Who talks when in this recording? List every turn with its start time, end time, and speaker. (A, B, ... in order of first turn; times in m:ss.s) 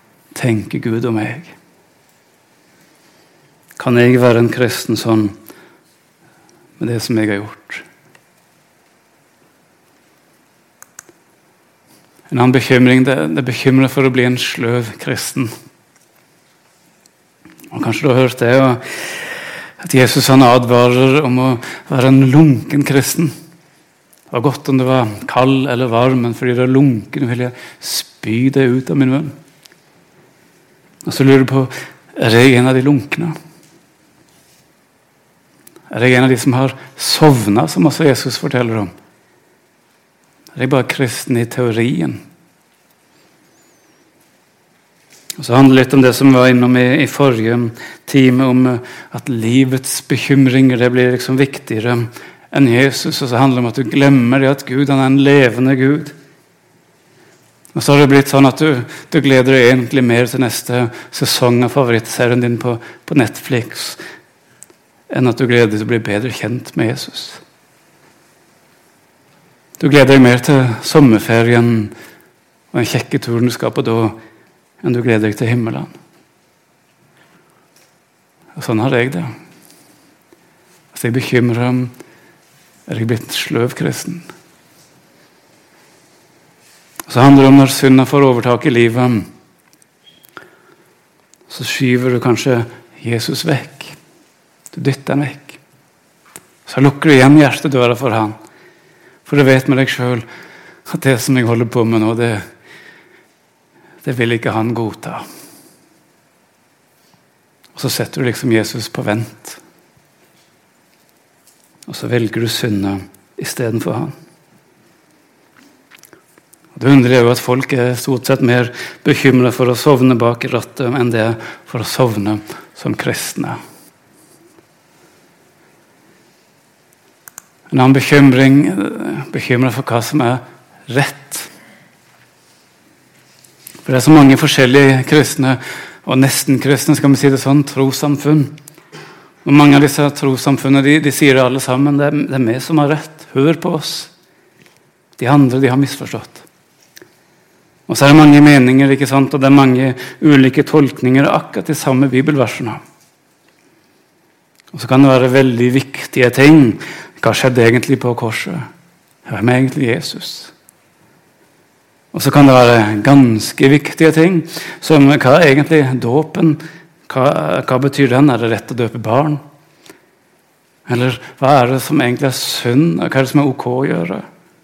0:00.3-0:01.6 A
0:03.8-0:05.3 A
0:06.8-0:07.8 A
0:12.3-0:15.5 A
0:17.7-0:18.8 A
0:19.8-0:23.3 A
0:24.3-0:29.3 A
0:31.0-0:33.4 A
0:35.9-0:38.9 A
0:40.6-0:42.2 A
0:45.4-0:56.1 A
0:57.7-1:04.0 A
1:05.1-1:07.4 A
1:09.8-1:11.9 A
1:12.7-1:14.2 A
1:14.8-1:15.9 A
1:18.6-1:19.3 A
1:20.9-1:21.9 A
1:22.9-1:24.3 A
1:27.1-1:29.3 A
1:31.5-1:34.0 A
1:34.7-1:35.6 A
1:36.7-1:38.4 A
1:39.3-1:40.2 A
1:40.9-1:42.4 A
1:44.0-1:45.2 A
1:47.8-1:49.6 A
1:51.9-1:54.1 A
1:56.8-2:03.6 A
2:07.7-2:11.5 A
2:13.8-2:18.5 A
2:19.4-2:24.1 A
2:25.2-2:26.5 A
2:27.9-2:32.8 A
2:34.7-2:38.7 A
2:39.2-2:40.5 A
2:42.1-2:49.4 A
2:50.9-2:54.2 A